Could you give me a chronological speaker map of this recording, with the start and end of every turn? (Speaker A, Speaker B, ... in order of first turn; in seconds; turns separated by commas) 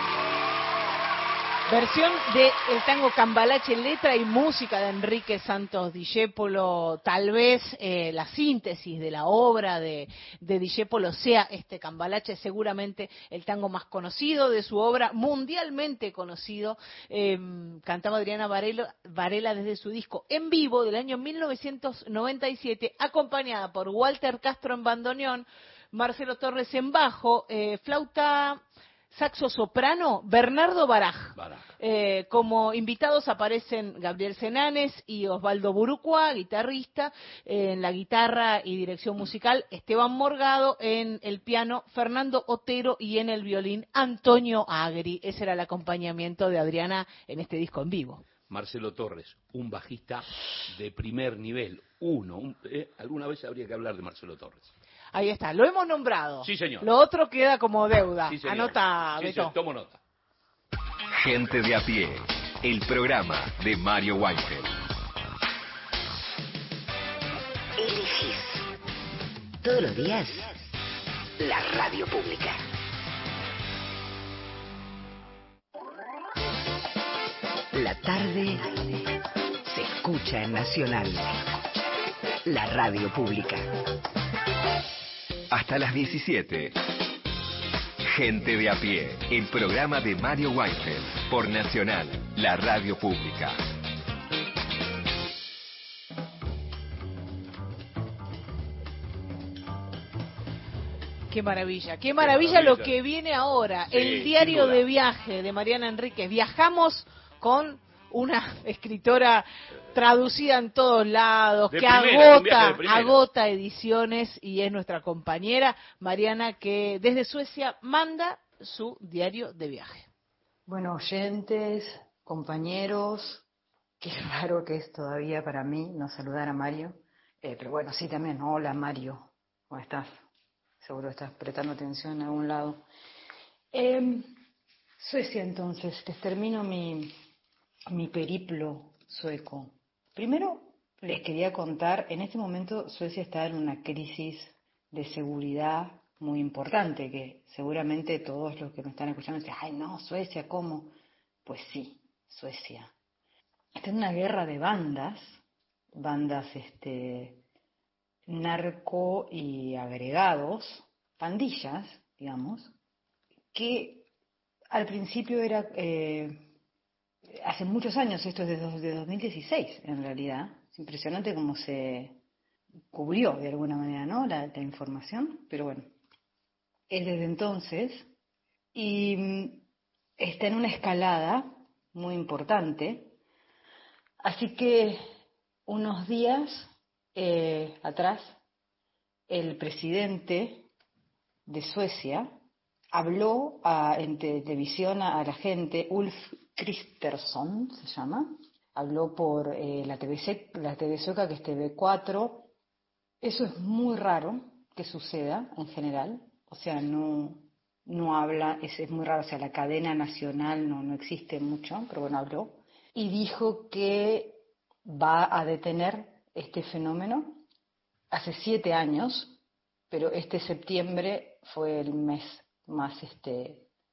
Speaker A: 1.7-28.6, Speaker A: 29.1-48.2, Speaker B: 31.4-31.7, Speaker B: 48.5-54.7, Speaker A: 55.1-59.5, Speaker B: 56.4-56.9, Speaker B: 58.2-60.0, Speaker C: 61.2-64.8, Speaker D: 67.8-68.7, Speaker D: 69.6-70.7, Speaker D: 71.4-72.6, Speaker D: 77.7-79.0, Speaker D: 79.7-81.6, Speaker D: 82.5-83.7, Speaker C: 85.5-86.8, Speaker C: 88.0-93.6, Speaker A: 101.3-120.1, Speaker B: 102.2-103.0, Speaker B: 103.9-104.9, Speaker B: 111.7-113.2, Speaker E: 120.7-123.4, Speaker E: 124.0-130.2, Speaker E: 130.8-132.8, Speaker E: 133.7-134.3, Speaker E: 135.0-137.1, Speaker E: 137.9-150.9, Speaker E: 151.5-152.9, Speaker E: 153.8-155.4, Speaker E: 155.9-157.4, Speaker E: 158.3-162.7, Speaker E: 163.5-164.1, Speaker E: 164.7-166.4, Speaker E: 167.4-172.2, Speaker E: 172.9-175.9, Speaker E: 176.9-178.1, Speaker E: 178.8-179.6, Speaker E: 180.2-183.2, Speaker E: 184.2-185.0, Speaker E: 185.7-188.4, Speaker E: 189.3-190.7, Speaker E: 191.5-192.3, Speaker E: 192.9-202.5, Speaker E: 203.2-217.4, Speaker E: 218.1-219.4, Speaker E: 219.9-223.7